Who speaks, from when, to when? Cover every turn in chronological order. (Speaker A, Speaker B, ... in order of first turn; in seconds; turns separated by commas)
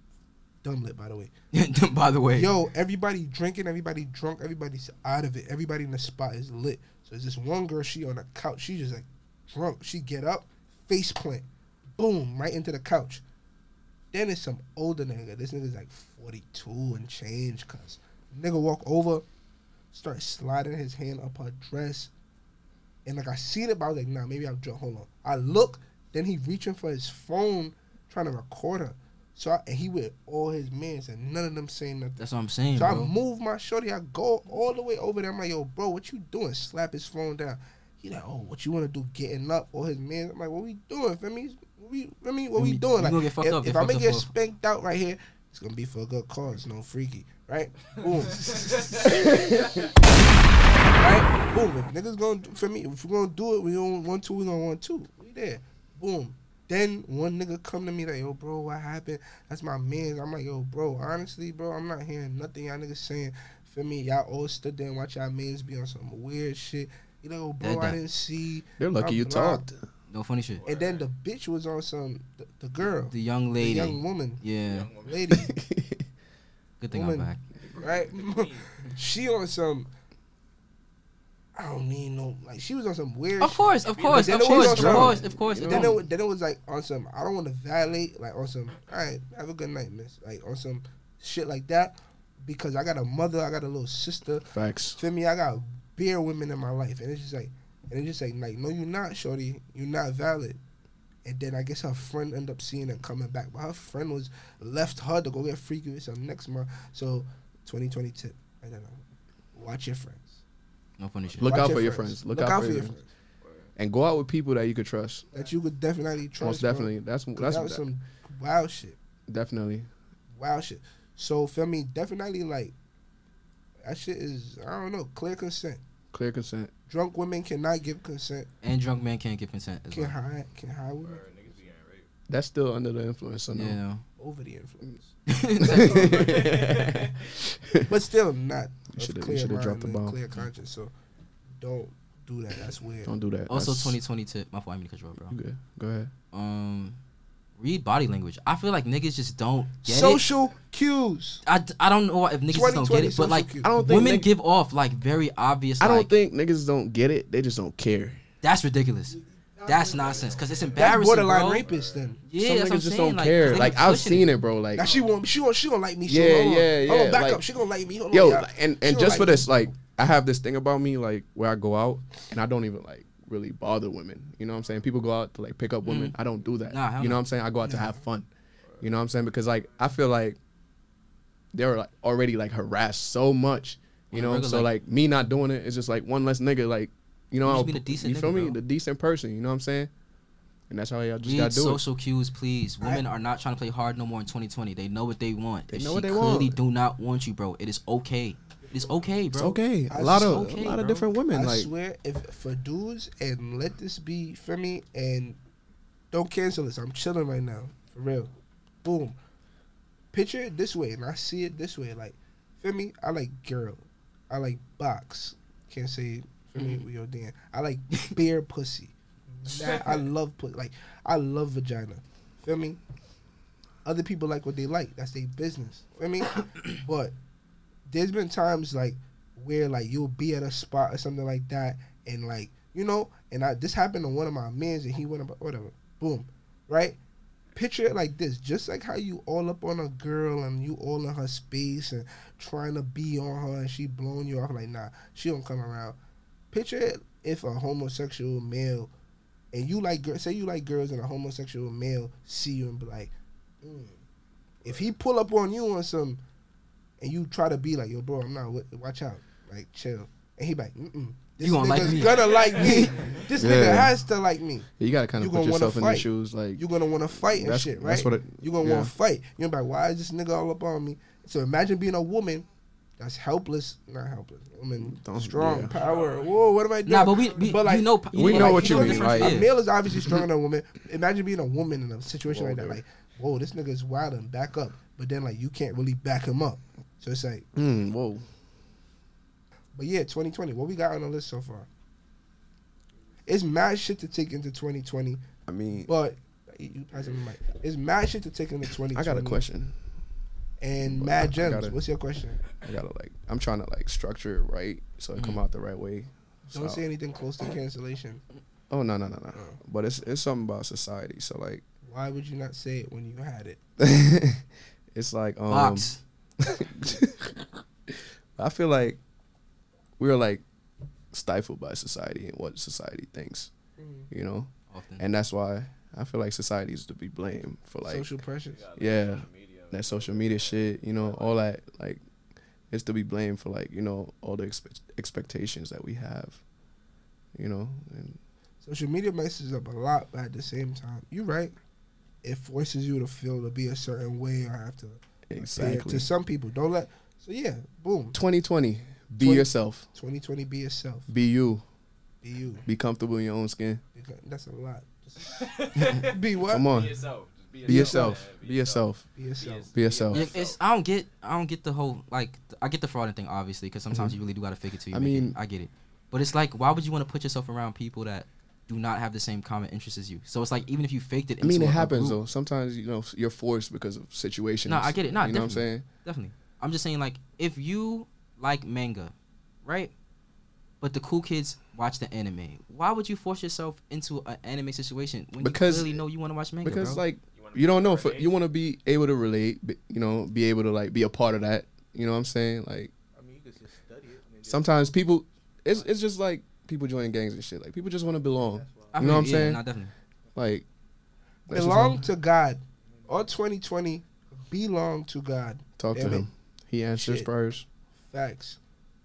Speaker A: 0.6-1.3, Speaker B: 1.5-2.5, Speaker A: 2.3-11.4, Speaker A: 11.9-13.2, Speaker A: 14.1-19.2, Speaker A: 19.9-22.1, Speaker A: 23.0-49.7, Speaker B: 32.2-33.1, Speaker B: 42.6-44.3, Speaker A: 51.0-69.6, Speaker B: 67.6-68.0, Speaker C: 68.8-69.9, Speaker B: 70.1-70.6, Speaker D: 70.6-71.1, Speaker A: 70.6-74.4, Speaker B: 73.1-74.9, Speaker D: 74.6-75.2, Speaker A: 75.0-75.5, Speaker C: 75.3-76.0, Speaker B: 76.8-77.4, Speaker A: 76.9-79.9, Speaker D: 77.7-78.7, Speaker A: 81.5-100.6, Speaker B: 83.4-86.0, Speaker D: 83.8-84.8, Speaker C: 84.5-86.0, Speaker C: 94.5-95.0, Speaker A: 101.2-109.0, Speaker A: 109.5-110.4, Speaker B: 111.0-111.6, Speaker C: 111.4-113.0, Speaker A: 111.4-113.1, Speaker D: 113.4-113.7, Speaker C: 113.8-115.2, Speaker A: 115.3-119.0, Speaker C: 116.4-117.8, Speaker C: 119.3-119.9, Speaker A: 120.3-122.7, Speaker A: 123.8-125.8, Speaker C: 126.1-126.7, Speaker A: 126.9-128.5, Speaker B: 128.6-130.2, Speaker A: 129.9-131.3, Speaker D: 131.0-132.1, Speaker C: 132.3-133.8, Speaker B: 133.5-134.0, Speaker A: 134.2-135.1, Speaker B: 135.3-136.2, Speaker C: 135.7-137.1, Speaker D: 135.7-137.4, Speaker C: 137.6-137.9, Speaker A: 137.9-140.9, Speaker C: 138.9-140.2, Speaker A: 141.6-143.1, Speaker C: 143.0-144.0, Speaker B: 143.5-145.3, Speaker C: 145.3-146.1, Speaker B: 146.3-147.0, Speaker B: 147.6-150.2, Speaker A: 149.8-151.4, Speaker B: 151.4-156.1, Speaker A: 152.5-153.7, Speaker C: 153.6-154.3, Speaker C: 155.8-158.2, Speaker B: 158.4-161.7, Speaker A: 159.6-162.2, Speaker D: 159.7-160.9, Speaker D: 161.6-162.2, Speaker B: 162.3-164.3, Speaker C: 162.4-164.9, Speaker D: 163.3-164.0, Speaker A: 164.7-169.7, Speaker D: 164.8-165.1, Speaker C: 166.1-167.4, Speaker C: 168.1-178.3, Speaker B: 175.8-176.1, Speaker B: 176.7-177.2, Speaker A: 177.6-178.0, Speaker C: 178.8-180.4, Speaker C: 181.5-189.9, Speaker B: 184.1-184.7, Speaker B: 187.4-188.6, Speaker C: 190.7-191.8, Speaker B: 191.2-201.1, Speaker A: 192.8-193.1, Speaker C: 195.7-196.6, Speaker A: 198.7-199.1, Speaker C: 199.3-201.7, Speaker A: 199.9-200.5, Speaker A: 201.3-205.4, Speaker A: 206.1-208.3, Speaker A: 208.8-209.2, Speaker A: 210.1-222.8, Speaker B: 216.6-216.8, Speaker A: 223.8-227.1, Speaker A: 227.9-237.0, Speaker A: 237.5-246.0, Speaker A: 246.5-248.9, Speaker A: 249.5-254.0, Speaker A: 254.6-256.2, Speaker A: 257.0-272.4, Speaker B: 261.4-262.9, Speaker D: 262.1-262.6, Speaker C: 263.3-264.0, Speaker C: 264.8-268.9, Speaker A: 273.0-287.4, Speaker C: 274.8-275.8, Speaker D: 275.7-276.4, Speaker B: 276.9-279.5, Speaker C: 278.1-280.3, Speaker C: 282.2-282.8, Speaker C: 287.5-288.2, Speaker A: 289.7-291.7, Speaker A: 293.3-295.2, Speaker C: 295.5-295.9, Speaker A: 295.9-299.4, Speaker C: 298.9-299.8, Speaker A: 300.6-302.4, Speaker C: 300.8-301.8, Speaker C: 302.6-306.9, Speaker A: 306.5-308.2, Speaker C: 308.7-311.6, Speaker A: 311.9-313.6, Speaker C: 313.8-319.0, Speaker B: 315.5-316.0, Speaker C: 320.0-320.4, Speaker C: 321.1-323.5, Speaker A: 323.8-324.1, Speaker C: 324.1-328.1, Speaker B: 324.7-325.1, Speaker A: 327.8-328.6, Speaker D: 328.5-331.4, Speaker C: 328.8-332.0, Speaker C: 332.7-336.4, Speaker C: 337.3-338.2, Speaker A: 338.6-341.5, Speaker A: 342.2-348.2, Speaker C: 345.3-346.1, Speaker C: 348.1-349.9, Speaker A: 349.2-351.1, Speaker C: 351.1-351.6, Speaker A: 352.2-352.6, Speaker C: 352.6-353.8, Speaker A: 353.9-356.9, Speaker D: 355.4-360.6, Speaker C: 356.5-356.9, Speaker A: 357.7-358.3, Speaker C: 357.7-359.0, Speaker A: 359.1-359.7, Speaker C: 359.7-360.2, Speaker B: 360.1-372.2, Speaker C: 363.9-364.2, Speaker C: 364.9-365.4, Speaker C: 371.4-375.8, Speaker B: 374.6-379.1, Speaker B: 379.6-379.9, Speaker B: 380.8-387.0, Speaker C: 385.4-386.0, Speaker C: 386.6-392.9, Speaker D: 387.3-388.3, Speaker E: 393.1-394.8, Speaker C: 394.4-399.6, Speaker E: 398.3-399.2, Speaker B: 398.9-399.9, Speaker C: 400.3-400.6, Speaker C: 401.5-402.0, Speaker A: 401.5-406.3, Speaker E: 402.9-403.3, Speaker C: 405.8-407.6, Speaker A: 407.0-407.3, Speaker A: 408.0-408.6